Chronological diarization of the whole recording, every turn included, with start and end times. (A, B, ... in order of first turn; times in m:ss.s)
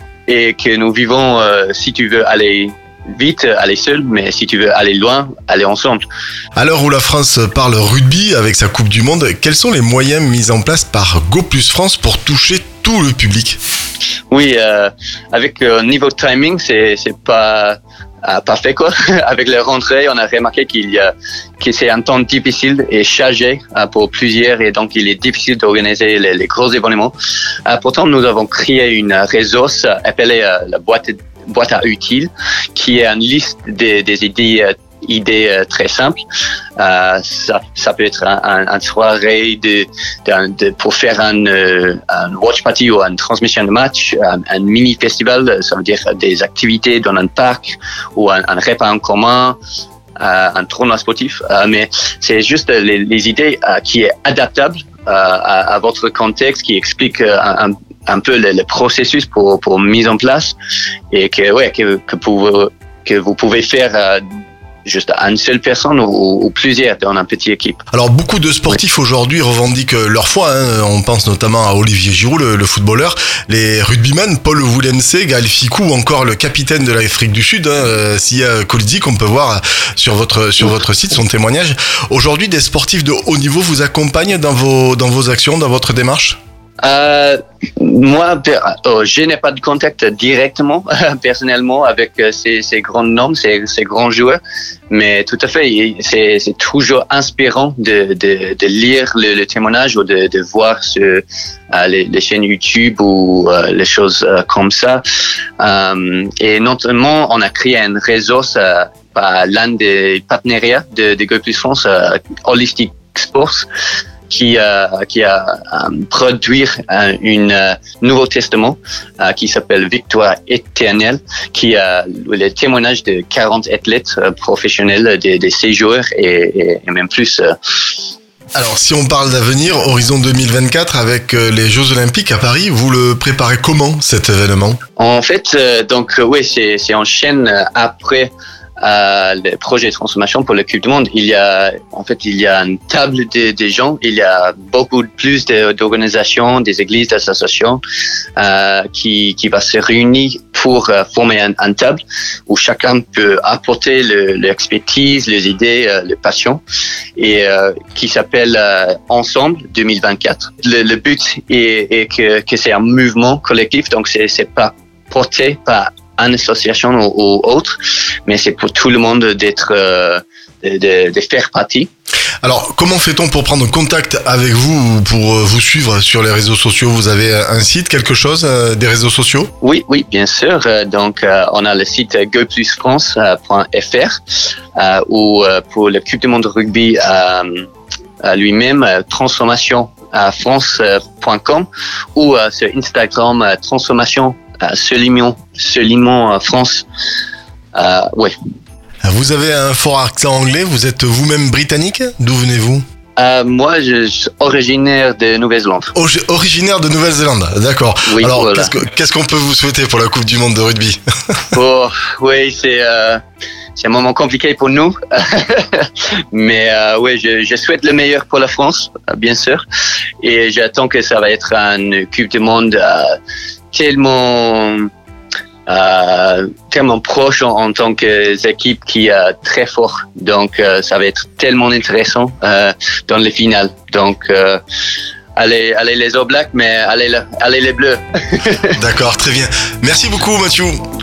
0:00.3-0:06.0 A
0:06.6-0:13.6 B
0:14.3-0:27.1 A
0:27.6-0:36.2 A
0:36.8-0:49.6 A
0:50.2-1:00.5 A
1:01.1-1:04.2 A
1:04.8-1:07.8 A
1:07.9-1:26.4 B
1:26.8-1:34.4 A
1:34.9-1:45.0 A
1:45.6-1:53.7 A
1:54.3-2:08.0 A
2:08.6-2:14.8 B
2:15.0-2:27.8 A
2:28.4-2:36.6 A
2:37.2-2:51.9 A
2:52.4-2:59.5 B
2:59.6-3:04.2 A
3:04.8-3:07.6 A
3:08.2-3:16.8 A
3:17.7-3:18.3 A
3:19.0-3:22.8 B
3:23.2-3:25.9 A
3:26.0-3:31.0 B
3:28.0-3:28.7 A
3:31.5-3:33.2 A
3:33.8-3:39.6 A
3:40.2-3:43.2 A
3:43.7-3:44.9 A
3:45.7-3:54.6 A
3:55.4-3:58.8 A
3:58.8-4:00.8 B